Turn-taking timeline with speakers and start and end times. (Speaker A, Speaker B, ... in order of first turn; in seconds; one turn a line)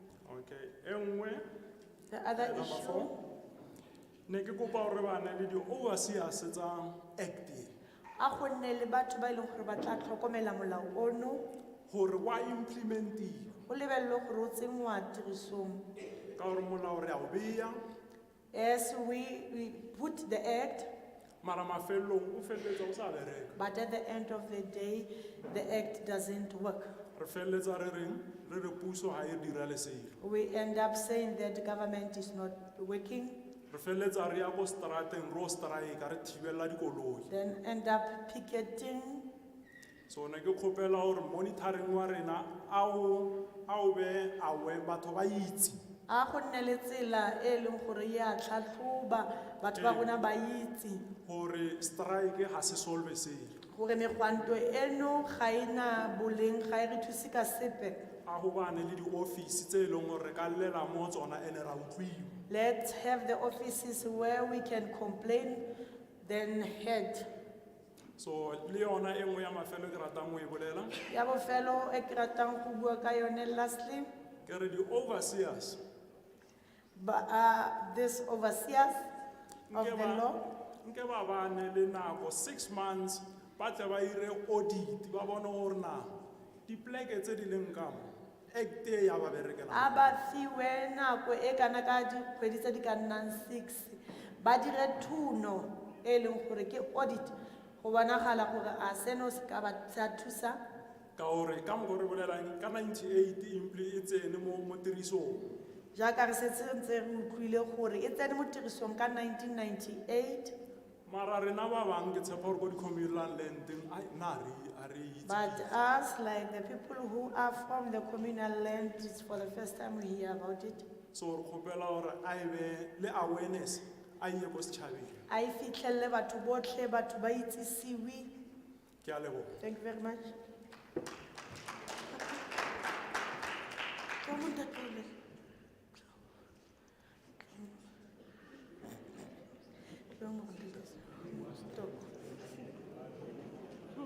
Speaker A: 0.3-1.4
Speaker B: 2.1-3.1
Speaker A: 2.4-3.1
Speaker A: 4.3-7.7
Speaker B: 8.2-11.4
Speaker A: 11.9-13.5
Speaker B: 13.7-15.9
Speaker A: 16.4-17.8
Speaker B: 18.5-20.9
Speaker A: 21.4-23.6
Speaker B: 23.6-26.9
Speaker A: 27.2-30.1
Speaker B: 30.2-33.4
Speaker A: 33.7-37.3
Speaker B: 37.3-39.3
Speaker A: 40.1-45.8
Speaker B: 46.1-51.1
Speaker A: 49.8-50.1
Speaker A: 51.2-53.6
Speaker B: 53.7-58.0
Speaker A: 58.3-62.3
Speaker B: 62.5-65.7
Speaker B: 66.2-67.3
Speaker A: 68.2-71.0
Speaker B: 71.1-74.1
Speaker A: 74.5-75.8
Speaker B: 77.0-79.1
Speaker A: 79.7-86.1
Speaker B: 79.7-80.4
Speaker A: 86.7-90.1
Speaker B: 89.7-100.6
Speaker A: 101.2-105.4
Speaker B: 105.9-110.5
Speaker A: 111.1-115.7
Speaker B: 115.2-120.9
Speaker A: 121.1-125.2
Speaker B: 125.3-128.3
Speaker A: 129.0-129.5
Speaker B: 129.6-130.3
Speaker B: 134.2-135.1
Speaker B: 137.4-137.8
Speaker B: 140.1-142.1